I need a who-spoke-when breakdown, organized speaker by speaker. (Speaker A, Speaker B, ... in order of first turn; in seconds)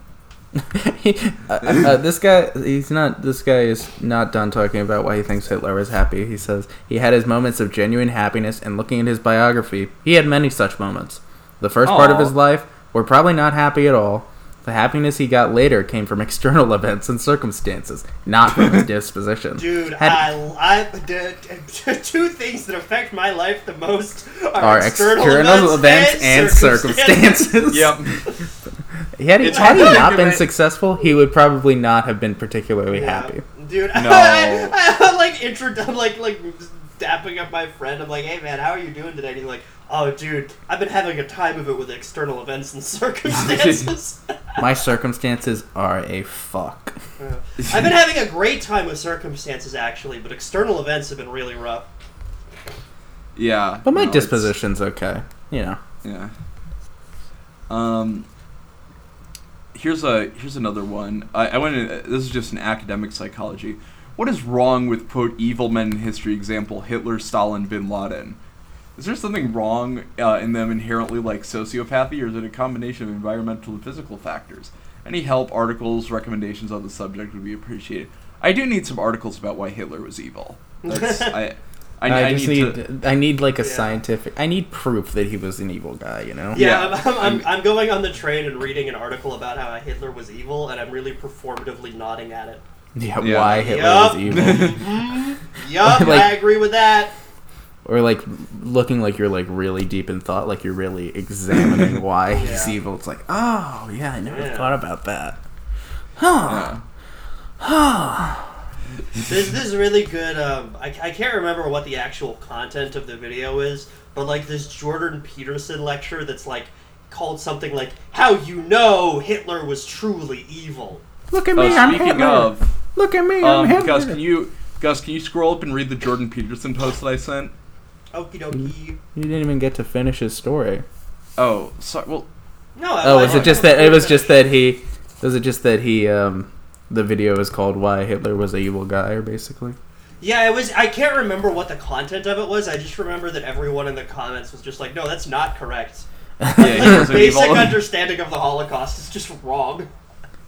Speaker A: 0.5-20.3, 24.6-28.2, 29.2-33.4, 44.6-47.0, 53.8-55.8, 82.0-86.6, 92.9-94.8, 95.7-96.4, 97.8-105.4, 106.2-106.7, 107.6-108.5, 121.3-124.2, 129.1-130.8, 133.0-139.8, 146.4-147.2
Speaker B: 11.8-12.3, 18.5-18.8, 27.7-28.2, 29.4-30.5, 33.9-34.7, 43.3-43.9, 53.3-54.5, 56.0-56.3, 57.7-58.2, 59.7-68.4, 69.0-82.8, 86.5-87.5, 93.2-93.6, 94.2-94.8, 101.6-101.9, 106.4-106.8, 121.5-122.7, 123.4-127.5, 131.4-132.3, 133.2-133.6, 146.6-147.8
Speaker C: 19.6-27.7, 29.5-30.1, 32.9-44.6, 47.2-51.9, 80.8-81.4, 83.6-84.0, 86.5-92.6, 93.4-97.1, 102.3-102.8, 104.3-104.7, 109.3-121.0, 121.5-122.0, 128.1-129.0, 132.8-134.5, 140.2-149.9